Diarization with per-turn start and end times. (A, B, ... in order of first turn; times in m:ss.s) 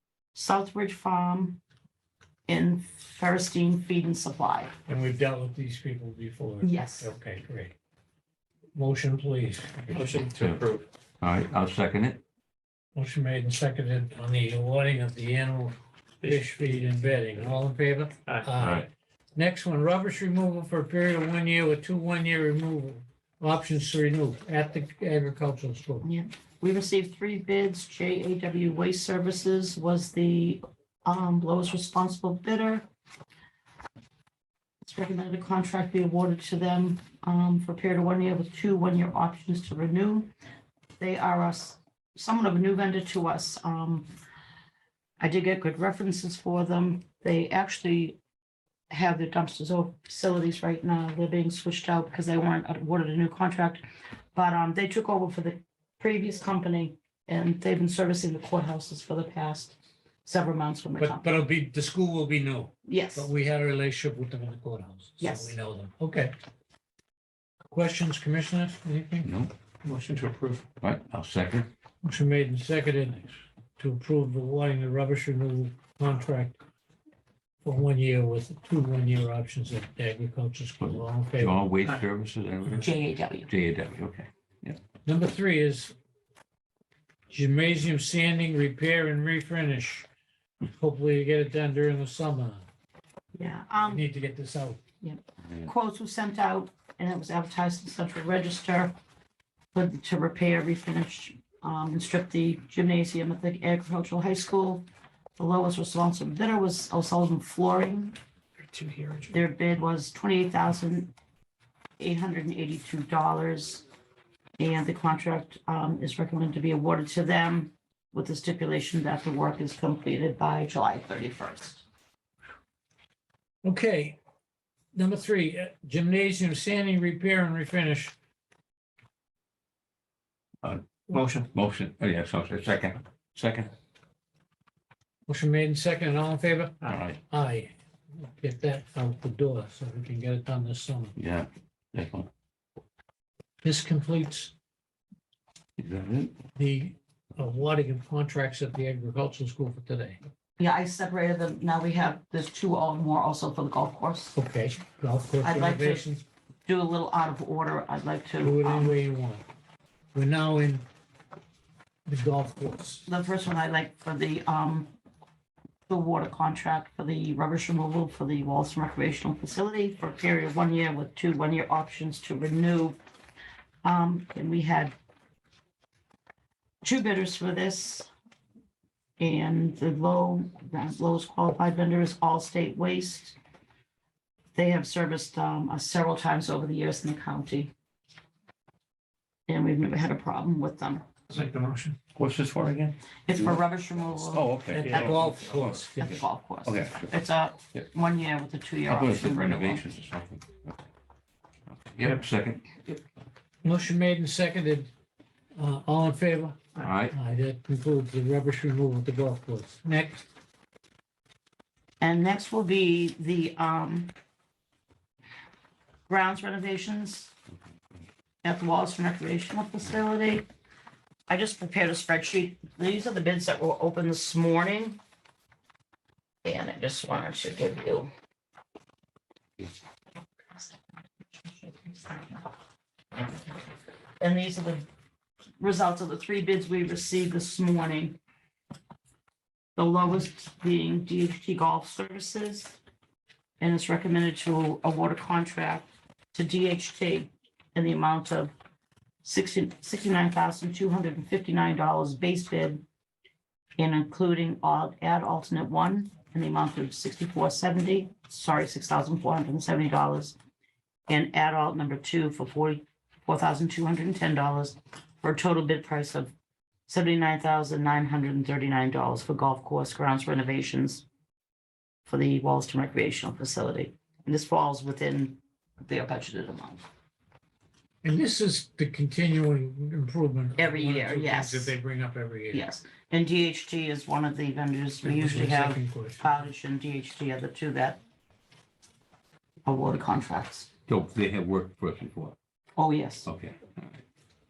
0:00.3-0:01.6 A
0:02.5-0:04.8 A
0:04.9-0:07.7 B
0:06.6-0:07.1 A
0:08.8-0:10.1 B
0:09.9-0:10.9 C
0:10.4-0:10.6 D
0:11.2-0:12.2 D
0:13.0-0:26.1 B
0:16.2-0:17.6 C
0:18.6-0:18.9 D
0:26.0-0:32.9 A
0:34.8-0:40.3 A
0:41.0-0:44.1 A
0:45.2-0:48.2 A
0:48.9-0:53.8 A
0:54.4-1:01.3 A
1:01.0-1:06.3 B
1:02.9-1:03.3 A
1:05.2-1:05.6 A
1:07.7-1:09.3 B
1:09.2-1:09.5 D
1:09.8-1:10.6 C
1:10.8-1:11.7 D
1:12.0-1:16.6 B
1:17.6-1:21.6 B
1:20.8-1:24.8 D
1:22.8-1:23.5 A
1:25.0-1:25.9 B
1:27.3-1:30.1 B
1:30.6-1:32.6 B
1:33.4-1:34.0 A
1:33.9-1:34.8 B
1:35.0-1:38.9 A
1:39.7-1:44.8 A
1:45.4-1:48.2 A
1:48.6-1:49.3 C
1:49.3-1:51.1 A
1:52.0-1:53.8 A
1:54.6-2:01.8 A
2:03.6-2:04.2 B
2:04.9-2:08.1 B
2:11.1-2:11.4 C
2:11.5-2:13.7 D
2:15.3-2:21.2 B
2:16.8-2:17.2 D
2:21.2-2:22.3 D
2:23.6-2:24.5 B
2:25.8-2:26.4 D
2:26.6-2:30.2 B
2:30.6-2:34.4 A
2:34.4-2:36.2 B
2:35.4-2:36.1 A
2:36.7-2:39.0 A
2:38.4-2:39.4 B
2:40.1-2:40.8 B
2:42.1-2:43.1 B
2:43.1-2:44.9 A
2:45.9-2:53.0 A
2:53.8-2:55.0 A
2:56.8-2:58.1 A
2:59.2-3:03.4 A
3:04.6-3:07.7 A
3:09.5-3:11.1 A
3:11.3-3:12.0 B
3:12.2-3:16.1 D
3:13.3-3:19.8 A
3:14.8-3:16.1 B
3:16.6-3:17.1 D
3:18.9-3:20.7 D
3:21.7-3:22.8 D
3:23.6-3:24.9 B
3:25.6-3:30.2 B
3:26.8-3:27.2 D
3:32.0-3:34.1 A
3:36.1-3:37.3 A
3:38.4-3:40.5 A
3:41.3-3:45.0 A
3:46.4-3:48.1 A
3:51.4-3:52.4 A
3:54.2-3:54.9 A
3:55.6-3:58.2 A
3:59.8-4:02.8 A
4:03.6-4:08.5 A
4:09.2-4:12.8 A
4:13.8-4:20.4 A
4:21.1-4:26.3 A
4:26.9-4:31.0 A
4:32.1-4:36.9 A
4:38.0-4:42.6 B
4:40.6-4:41.8 A
4:42.5-4:48.0 A
4:45.0-4:46.4 B
4:49.7-4:50.7 A
4:50.9-4:52.4 D
4:52.8-4:53.3 A
4:53.3-4:54.0 D